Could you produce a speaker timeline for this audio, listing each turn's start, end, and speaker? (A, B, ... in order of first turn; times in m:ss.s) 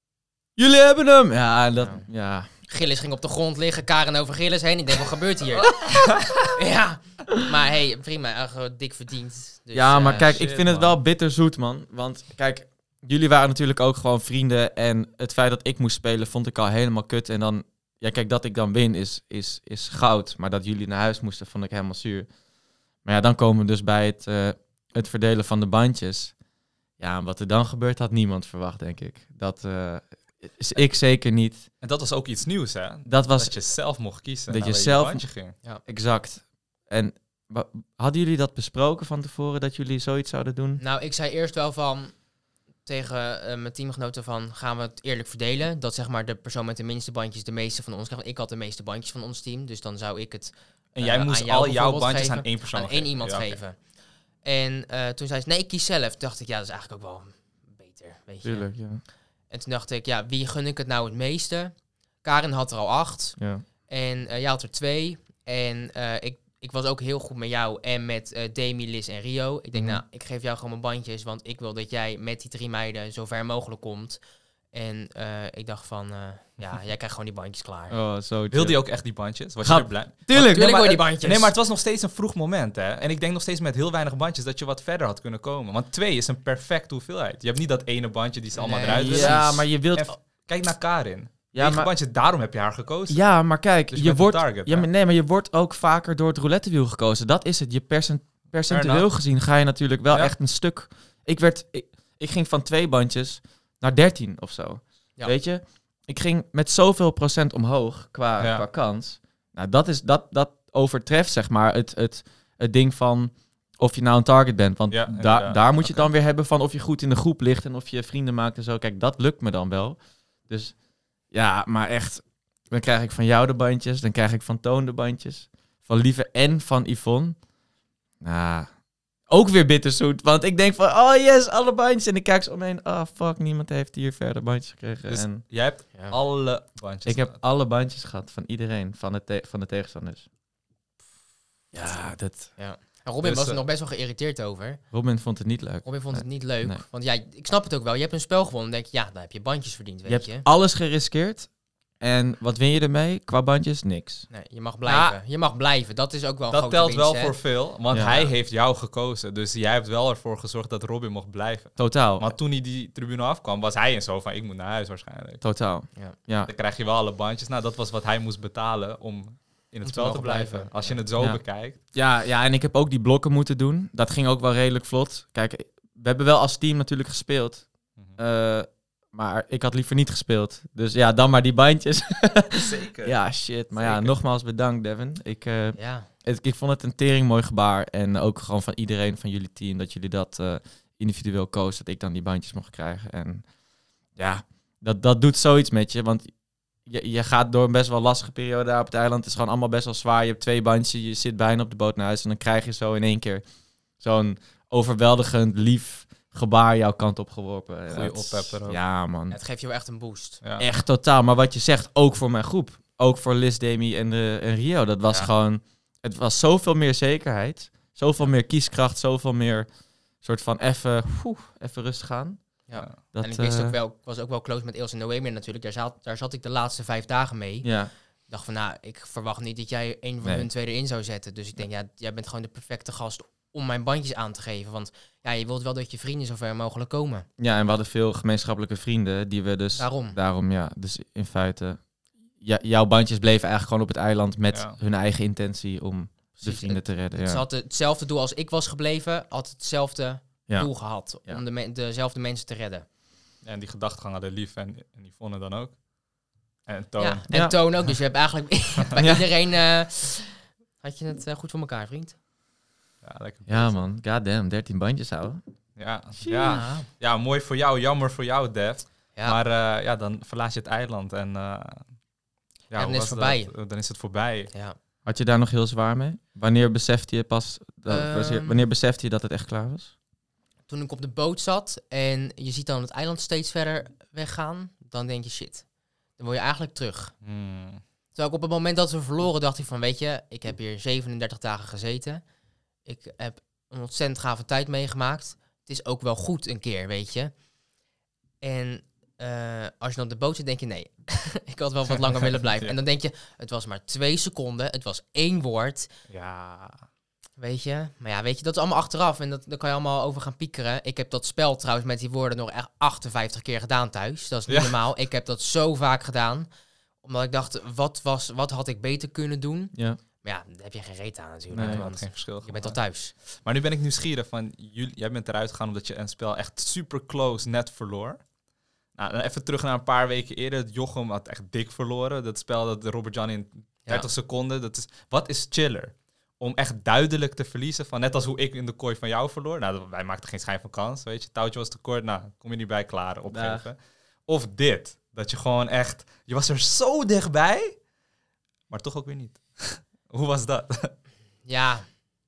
0:00.6-0:02.5 A
0:01.8-0:02.1 B
0:02.7-0:10.4 B
0:05.8-0:06.5 C
0:09.7-0:22.3 A
0:10.1-0:11.0 C
0:23.0-0:26.4 A
0:27.0-0:31.6 A
0:31.8-0:35.6 C
0:33.1-0:33.6 A
0:34.5-0:35.2 A
0:35.8-0:40.8 A
0:40.8-0:42.2 B
0:42.9-0:53.8 B
0:51.0-0:53.6 C
0:54.4-0:58.7 B
0:58.4-0:59.0 A
0:59.5-1:14.2 B
1:03.4-1:03.6 A
1:09.8-1:10.0 A
1:14.7-1:18.0 B
1:17.9-1:18.8 A
1:18.5-1:33.3 C
1:19.6-1:21.0 A
1:20.3-1:21.5 B
1:28.6-1:29.6 B
1:28.9-1:30.1 A
1:31.5-1:31.9 A
1:33.1-2:00.8 A
1:33.8-1:34.9 C
1:38.7-1:39.1 C
1:40.1-1:40.4 C
1:48.4-1:48.6 C
1:54.9-1:56.1 C
2:01.3-2:07.4 A
2:08.2-2:15.4 A
2:15.1-2:17.4 C
2:17.1-2:20.3 A
2:21.7-2:22.6 A
2:21.8-2:24.8 B
2:23.2-2:23.6 C
2:24.9-2:26.8 A
2:25.8-2:30.5 B
2:30.1-2:34.3 A
2:34.3-2:37.4 B
2:34.9-2:35.2 C
2:36.5-2:45.4 C
2:37.9-2:38.3 A
2:41.8-2:42.4 A
2:45.4-2:46.5 A
2:46.5-2:51.8 C
2:49.9-2:51.0 B
2:51.2-3:13.5 A
3:02.6-3:03.2 C
3:03.7-3:04.1 C
3:05.8-3:06.1 B
3:14.2-3:23.4 A
3:24.0-3:29.4 A
3:27.9-3:28.8 C
3:29.3-3:30.4 B
3:30.6-3:43.8 A
3:42.7-3:57.3 B
3:47.6-3:47.9 A
3:57.4-4:07.4 A
3:59.8-4:00.2 B
4:04.5-4:04.8 C
4:06.4-4:12.8 B
4:10.5-4:11.4 A
4:13.4-4:15.8 C
4:16.6-4:17.2 C
4:17.0-4:22.2 B
4:17.3-4:17.6 A
4:19.0-4:19.3 A
4:23.0-4:23.8 C
4:23.5-4:25.4 A
4:25.8-4:32.0 C
4:26.2-4:26.5 A
4:26.3-4:26.9 B
4:32.7-4:34.5 C
4:32.8-4:33.5 B
4:35.1-4:39.9 A
4:37.9-4:38.6 B
4:40.7-4:45.7 B
4:46.2-4:47.1 B
4:47.2-4:47.8 C
4:48.2-4:52.2 B
4:52.9-4:57.3 B
4:58.4-5:05.9 B
5:02.3-5:02.8 C
5:06.1-5:06.9 C
5:07.4-5:16.5 B
5:14.5-5:14.8 C
5:17.0-5:23.1 B
5:19.8-5:20.0 A
5:21.5-5:21.8 A
5:21.6-5:28.3 C
5:28.9-5:47.8 C
5:43.3-5:43.7 A
5:48.7-5:51.0 C
5:51.4-5:51.9 B